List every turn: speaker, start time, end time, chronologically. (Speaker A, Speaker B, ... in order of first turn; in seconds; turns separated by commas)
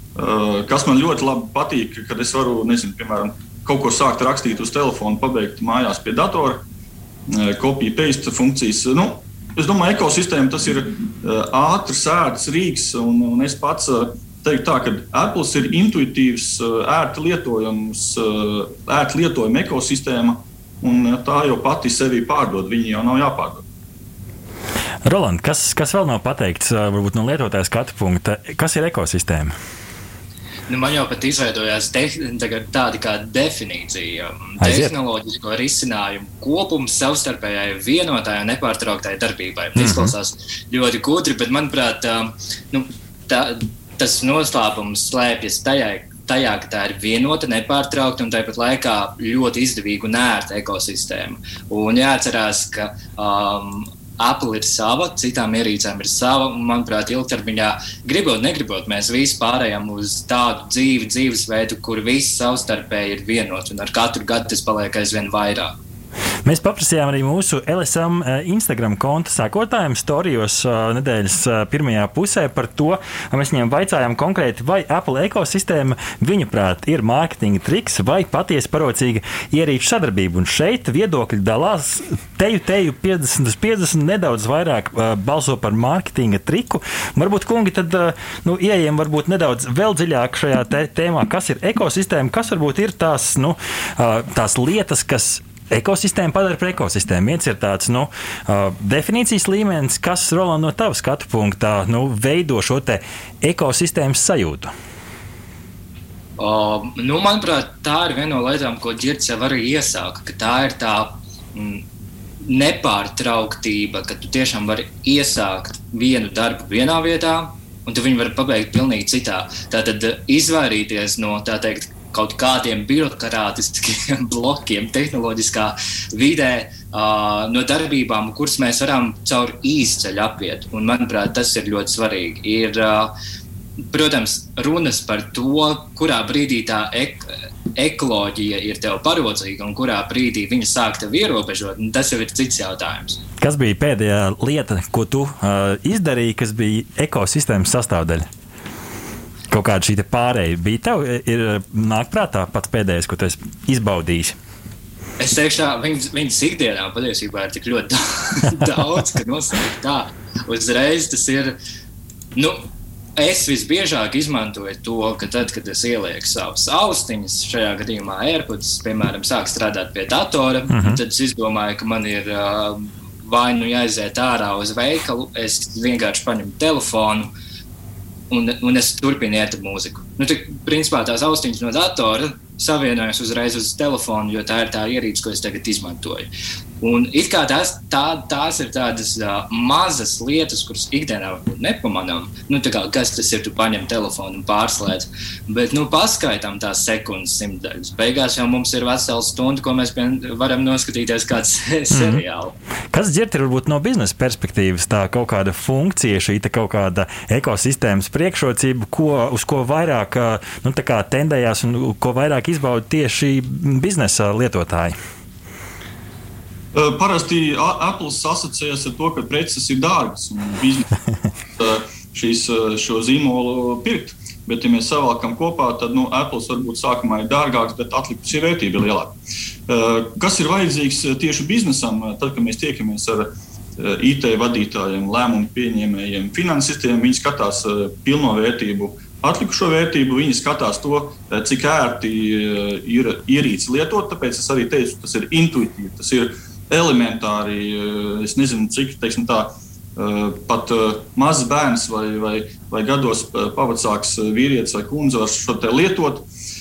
Speaker A: 0.1-6.6, Speaker A: 7.3-23.6, Speaker B: 25.0-29.5, Speaker C: 30.7-65.8, Speaker B: 34.6-34.9, Speaker B: 39.8-40.1, Speaker B: 66.4-104.7, Speaker C: 106.4-111.8, Speaker C: 112.4-133.1, Speaker C: 133.9-143.2, Speaker B: 143.4-148.3, Speaker B: 149.5-154.3, Speaker C: 155.2-161.6, Speaker C: 162.3-162.6, Speaker C: 163.2-177.3, Speaker B: 170.7-171.0, Speaker C: 178.3-186.3, Speaker C: 186.8-202.5, Speaker B: 201.9-202.2, Speaker B: 202.9-214.9, Speaker A: 216.7-221.0, Speaker A: 221.6-229.2, Speaker A: 229.7-256.3